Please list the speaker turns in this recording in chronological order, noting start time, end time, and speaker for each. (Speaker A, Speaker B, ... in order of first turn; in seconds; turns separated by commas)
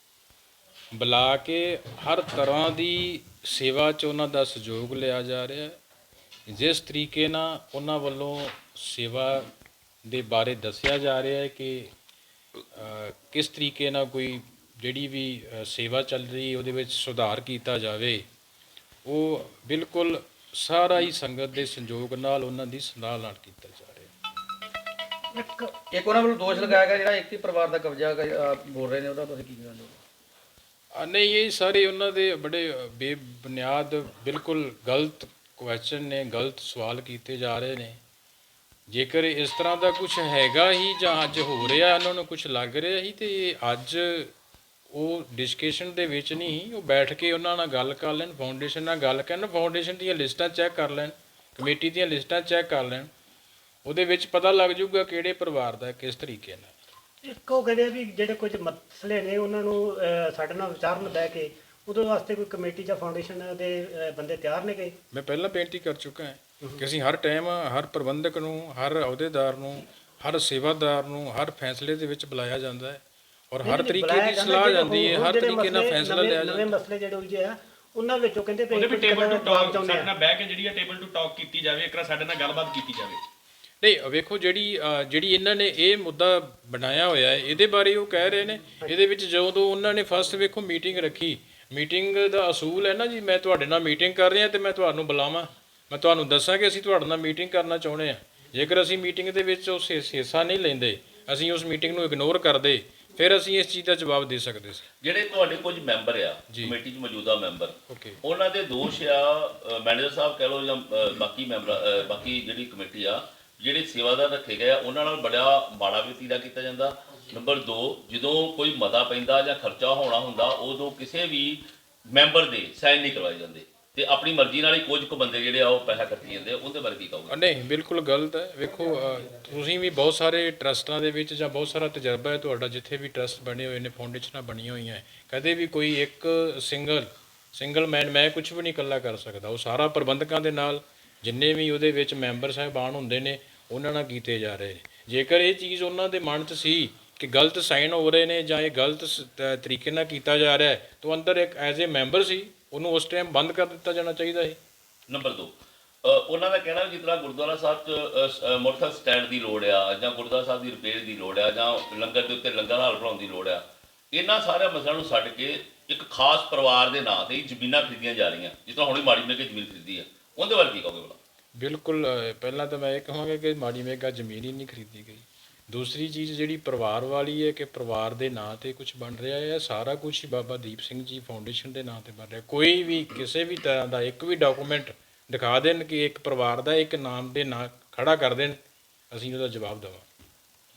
Speaker A: 0.9-5.8, Speaker A: 6.5-9.4, Speaker A: 10.0-11.9, Speaker A: 12.7-18.2, Speaker A: 19.1-24.1, Speaker B: 25.3-25.7, Speaker C: 25.9-29.9, Speaker A: 30.9-38.0, Speaker A: 38.9-44.3, Speaker A: 44.9-53.1, Speaker A: 53.8-56.7, Speaker B: 57.2-65.0, Speaker A: 65.1-76.7, Speaker B: 73.6-80.2, Speaker D: 78.7-83.2, Speaker A: 83.8-104.8, Speaker E: 105.0-127.3, Speaker A: 106.5-106.8, Speaker A: 107.9-108.2, Speaker A: 127.3-154.6, Speaker E: 155.1-155.5, Speaker E: 156.0-171.2, Speaker A: 171.5-188.6, Speaker A: 189.1-190.0